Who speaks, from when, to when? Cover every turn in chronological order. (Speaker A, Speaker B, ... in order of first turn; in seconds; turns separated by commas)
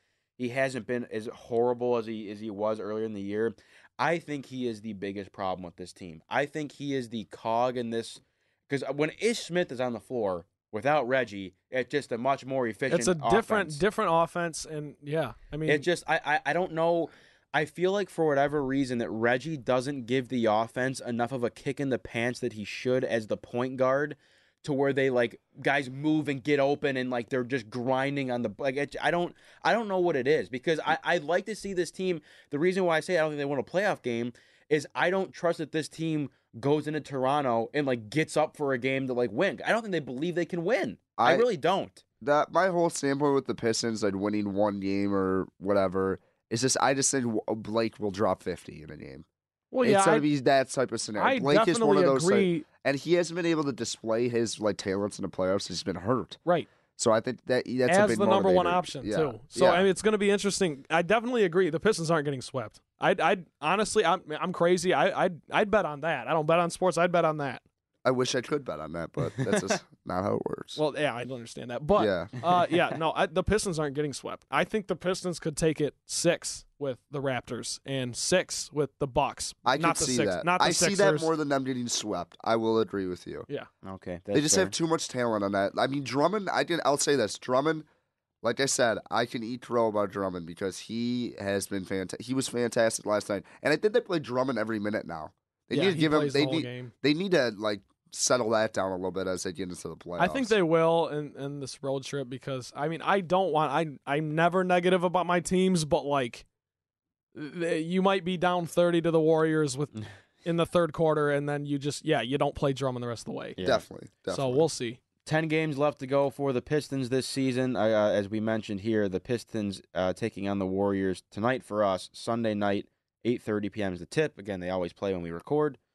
Speaker A: 0.4-13.8, Speaker B: 12.9-15.8, Speaker A: 15.7-42.0, Speaker C: 41.2-41.5, Speaker C: 42.2-49.2, Speaker B: 49.7-50.3, Speaker C: 49.8-56.4, Speaker B: 51.2-52.6, Speaker C: 57.0-59.9, Speaker B: 57.9-67.6, Speaker C: 68.0-70.8, Speaker B: 70.8-81.3, Speaker C: 72.0-72.3, Speaker C: 79.6-83.5, Speaker A: 83.8-84.7, Speaker C: 84.3-87.8, Speaker C: 88.4-100.6, Speaker B: 95.7-96.9, Speaker B: 100.2-106.4, Speaker B: 107.3-109.9, Speaker B: 110.4-113.6, Speaker A: 113.6-113.8, Speaker C: 113.6-114.7, Speaker B: 114.3-115.0, Speaker A: 115.2-125.8